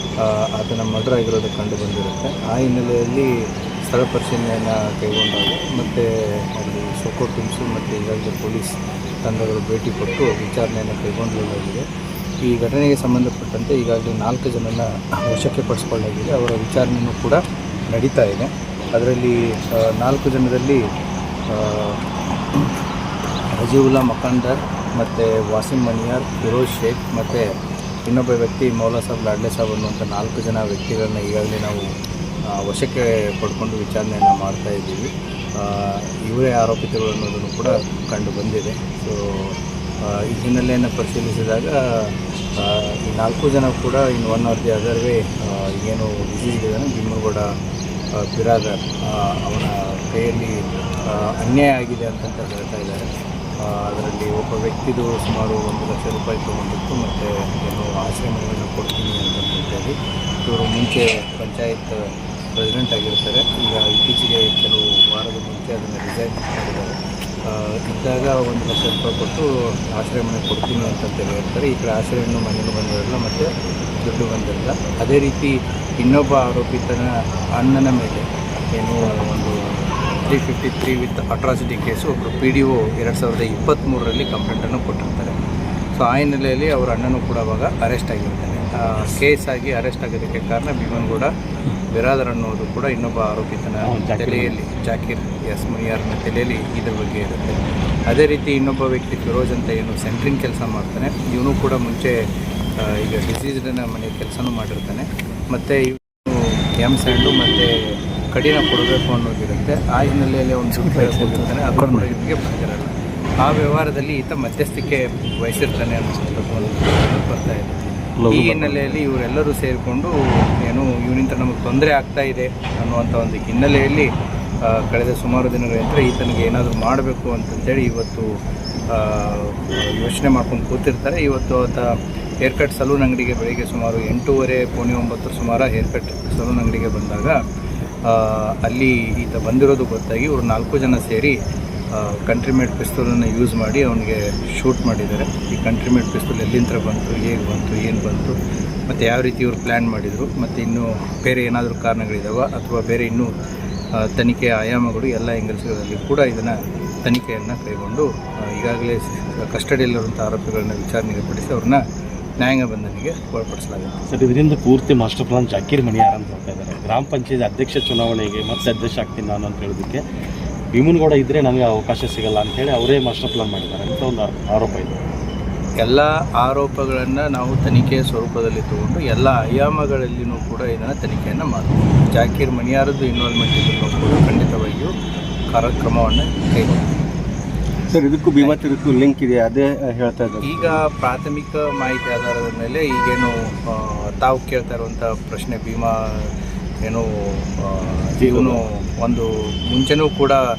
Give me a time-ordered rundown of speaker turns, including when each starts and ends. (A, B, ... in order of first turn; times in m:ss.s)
0:00.2-0:03.3 A
0:03.9-0:11.8 A
0:12.4-0:17.4 A
0:17.9-0:20.8 A
0:21.5-0:22.0 A
0:23.5-0:27.5 A
0:28.0-0:31.8 A
0:32.5-0:47.5 A
0:48.2-0:53.0 A
0:53.6-0:59.9 A
1:00.4-1:02.0 A
1:02.6-1:13.5 A
1:14.0-1:25.4 A
1:25.9-1:31.3 A
1:31.9-1:42.2 A
1:33.8-1:34.6 B
1:42.8-1:47.7 A
1:48.3-2:04.1 A
1:58.2-1:59.0 B
2:04.6-2:08.3 A
2:08.9-2:17.4 A
2:18.0-2:21.4 A
2:21.9-2:28.4 A
2:28.9-2:33.3 A
2:34.0-2:41.8 A
2:42.4-2:43.9 A
2:44.1-2:50.0 B
2:50.7-2:54.9 B
2:55.8-3:04.9 A
3:05.5-3:06.8 A
3:07.9-3:10.8 C
3:10.4-3:16.3 A
3:16.8-3:20.4 A
3:18.2-3:18.6 B